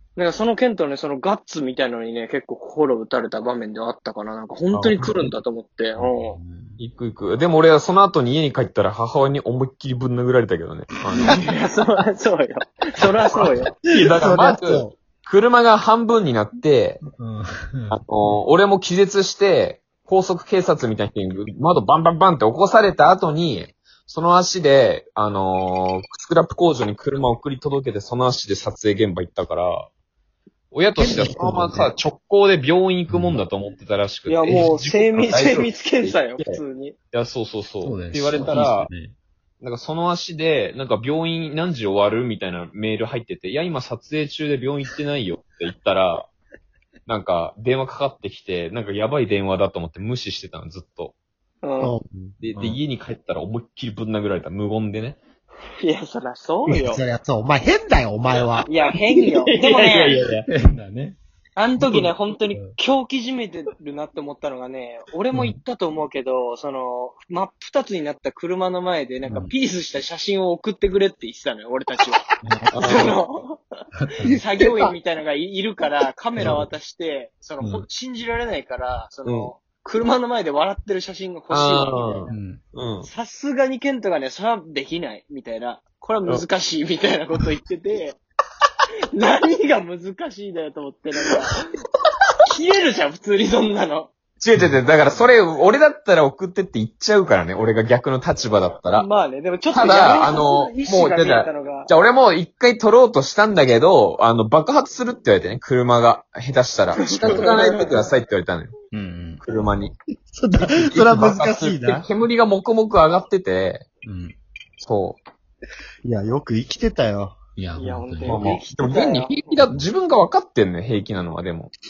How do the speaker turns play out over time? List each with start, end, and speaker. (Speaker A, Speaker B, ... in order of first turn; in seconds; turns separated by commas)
Speaker A: 0.2-6.4, Speaker B: 4.7-5.1, Speaker C: 6.0-6.8, Speaker D: 6.8-11.4, Speaker A: 11.3-13.7, Speaker D: 13.8-17.0, Speaker B: 14.0-14.9, Speaker C: 17.1-18.0, Speaker D: 17.9-29.9, Speaker D: 30.7-36.6, Speaker B: 31.0-31.9, Speaker C: 33.1-33.4, Speaker A: 34.3-37.0, Speaker D: 37.1-38.9, Speaker C: 37.8-39.1, Speaker D: 39.6-46.3, Speaker D: 47.1-51.1, Speaker A: 51.6-51.9, Speaker B: 51.8-52.4, Speaker D: 52.4-55.2, Speaker A: 55.8-57.0, Speaker B: 56.7-58.7, Speaker D: 58.5-60.5, Speaker A: 58.7-60.2, Speaker C: 60.5-61.2, Speaker A: 61.6-72.3, Speaker C: 61.8-62.8, Speaker C: 65.3-65.6, Speaker C: 72.4-72.9, Speaker D: 72.7-73.2, Speaker A: 72.8-73.6, Speaker C: 74.0-74.4, Speaker A: 74.2-82.3, Speaker D: 74.6-74.9, Speaker D: 76.4-76.6, Speaker D: 81.5-83.1, Speaker C: 82.3-82.6, Speaker A: 83.0-88.2, Speaker A: 89.2-91.6, Speaker A: 92.5-94.1, Speaker D: 94.4-99.1, Speaker A: 99.0-101.9, Speaker D: 99.7-108.7, Speaker A: 107.0-107.9, Speaker C: 108.9-109.4, Speaker D: 109.4-109.9, Speaker B: 110.3-112.0, Speaker D: 110.6-113.9, Speaker C: 114.0-114.4, Speaker D: 114.8-115.2, Speaker B: 116.0-117.3, Speaker C: 117.6-118.5, Speaker A: 117.8-119.5, Speaker D: 118.2-121.7